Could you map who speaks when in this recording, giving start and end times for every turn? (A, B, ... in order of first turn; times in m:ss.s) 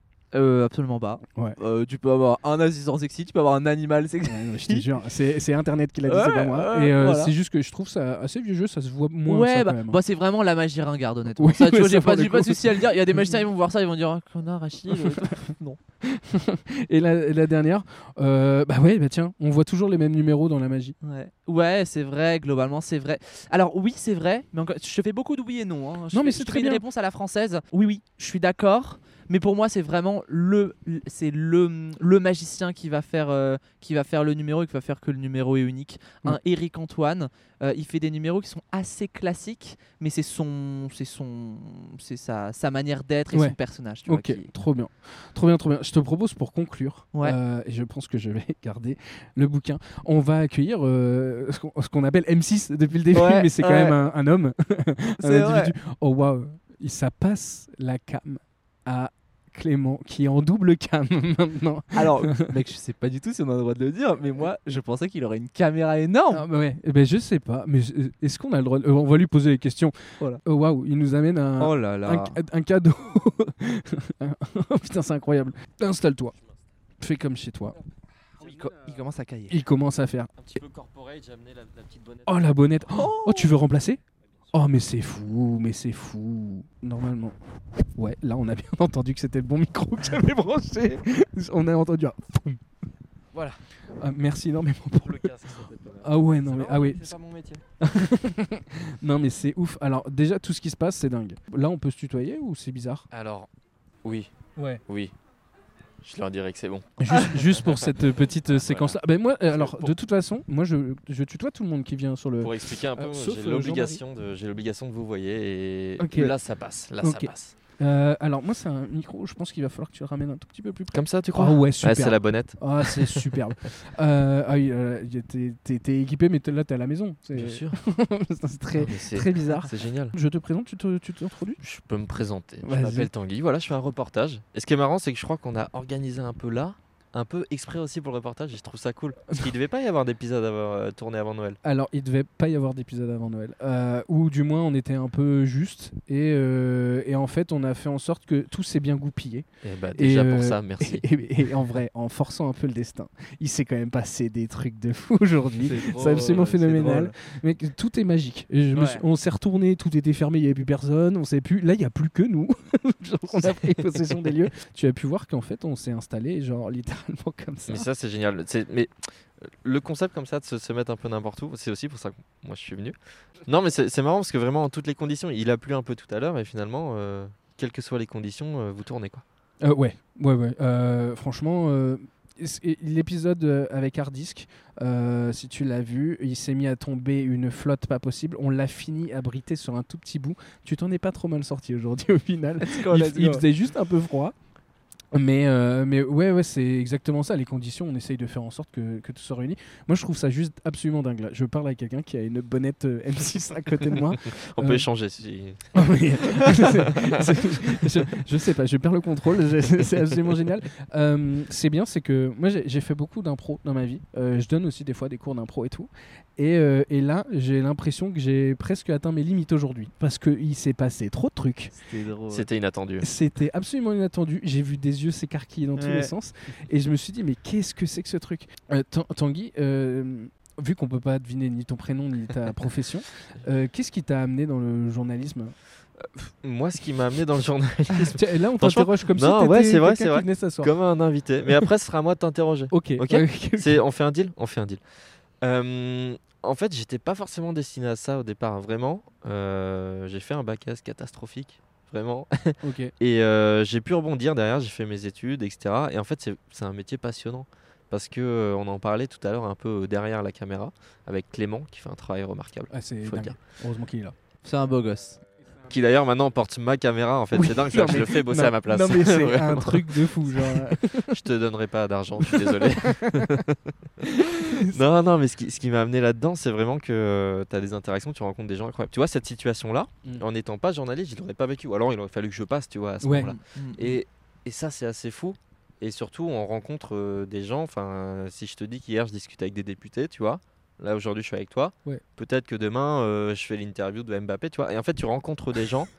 0:00.3-0:04.9 A
0:04.2-0:10.0 B
0:06.1-0:07.3 A
0:09.3-0:15.8 A
0:11.4-0:13.4 B
0:16.0-0:21.0 B
0:21.0-0:44.5 A
0:26.1-0:26.8 B
0:44.1-1:02.5 B
0:53.1-0:54.0 A
0:55.2-0:55.7 A
1:01.9-1:06.4 A
1:06.3-1:16.4 B
1:11.6-1:12.4 A
1:17.0-1:17.8 B
1:18.4-1:19.6 A
1:19.5-1:20.4 B
1:20.4-1:22.4 C
1:22.2-1:24.0 B
1:22.9-1:23.6 A
1:24.5-1:27.4 B
1:28.0-1:32.6 B
1:33.3-1:33.6 C
1:34.0-1:37.2 B
1:35.0-1:37.6 C
1:37.8-1:43.1 B
1:43.1-1:43.5 C
1:44.0-1:44.3 C
1:44.9-1:45.1 C
1:46.0-1:48.0 C
1:47.0-1:54.0 B
1:48.5-1:49.0 C
1:49.5-1:50.0 C
1:52.4-1:57.5 C
1:56.0-1:56.4 B
1:57.0-2:11.6 B
2:00.9-2:03.4 C
2:07.3-2:07.8 C
2:08.8-2:10.2 C
2:11.6-2:21.6 C
2:12.6-2:13.1 B
2:21.6-2:47.9 B
2:29.6-2:31.1 C
2:35.6-2:37.1 C
2:35.8-2:37.1 A
2:38.7-2:39.0 A
2:43.4-2:43.9 C
2:47.7-2:59.2 C
2:59.6-3:14.3 B
3:12.6-3:13.4 A
3:15.1-3:24.9 B
3:24.2-3:27.7 C
3:25.7-3:41.7 B
3:41.7-3:42.5 A
3:42.3-3:43.1 C
3:43.0-3:55.6 B
3:45.8-3:46.1 A
3:56.2-4:04.8 C
3:57.9-4:00.7 B
4:02.7-4:03.8 B
4:05.4-4:23.4 C
4:12.6-4:12.9 B
4:22.7-4:24.2 B
4:24.4-4:25.2 A
4:25.6-4:55.9 C
4:27.3-4:31.2 B
4:32.2-4:33.4 B
4:34.2-4:34.8 B
4:43.0-4:43.3 B
4:43.2-4:44.0 A